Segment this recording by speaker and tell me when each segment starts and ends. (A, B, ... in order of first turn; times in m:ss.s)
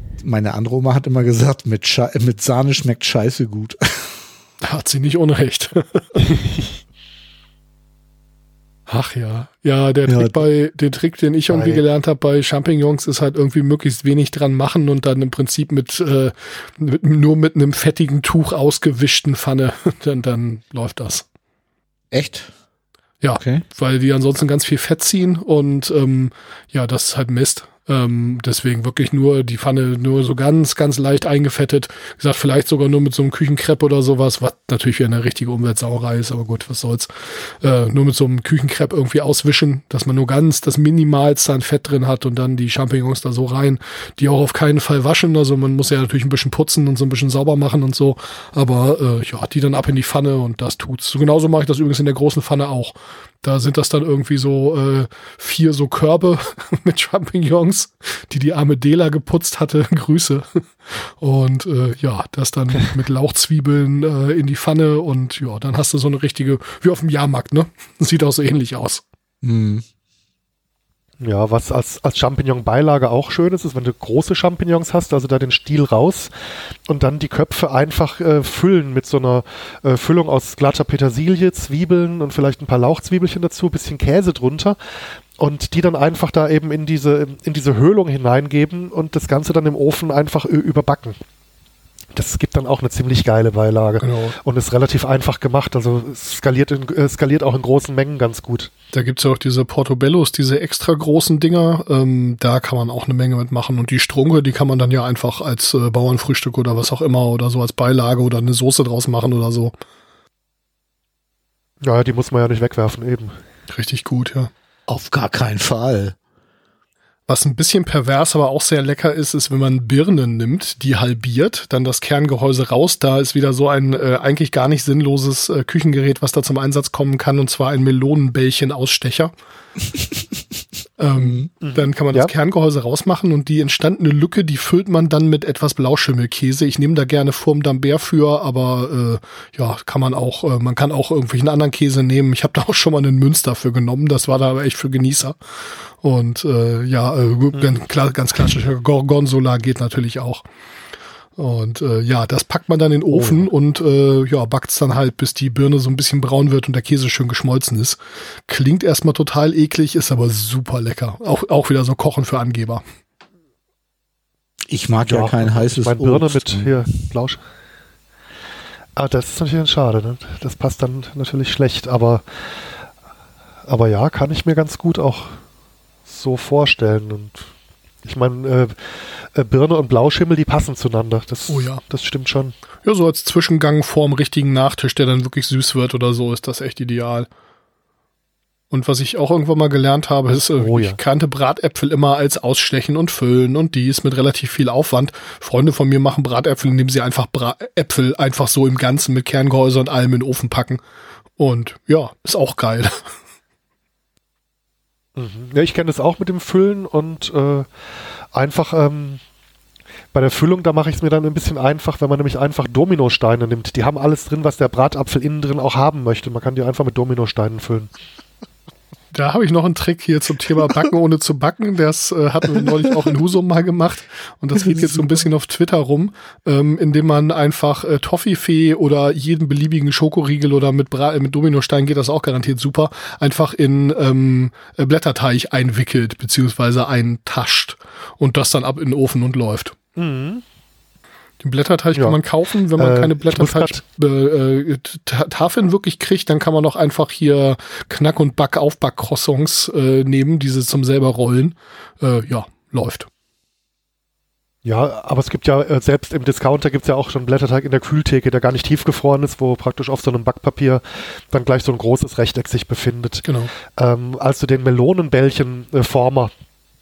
0:00.2-0:04.2 A
0:04.6-0:06.4 B
0:08.9-0:21.2 B
0:10.1-0:10.4 A
0:11.5-0:11.8 C
0:22.1-0:22.5 A
0:23.2-1:09.0 B
0:23.3-0:23.6 A
1:09.4-1:09.8 A
1:11.2-1:16.3 C
1:16.9-1:24.8 C
1:25.4-1:31.2 C
1:32.2-1:38.7 C
1:34.0-1:34.4 B
1:38.9-1:49.7 B
1:51.8-1:53.4 C
1:53.7-1:54.5 B
1:54.9-1:56.2 A
1:57.3-2:09.3 B
2:11.0-2:25.4 B
2:11.6-2:12.3 C
2:26.0-2:30.4 B
2:27.5-2:27.8 C
2:31.4-2:42.8 B
2:33.1-2:33.5 C
2:44.7-2:46.8 A
2:45.0-2:47.4 C
2:49.0-2:52.7 C
2:53.7-2:55.4 C
2:56.1-2:57.5 C
2:58.0-3:02.6 C
3:01.5-3:01.8 B
3:02.8-3:07.3 B
3:08.7-3:20.8 B
3:10.6-3:11.0 C
3:21.4-3:23.1 B
3:25.2-3:27.7 C
3:28.3-3:29.2 C
3:30.1-3:37.9 C
3:39.1-3:59.8 B
3:44.6-3:45.3 A
4:00.0-4:00.4 C
4:01.4-4:13.1 B
4:01.9-4:02.2 C
4:02.8-4:03.8 C
4:14.6-4:26.3 C
4:23.3-4:23.5 B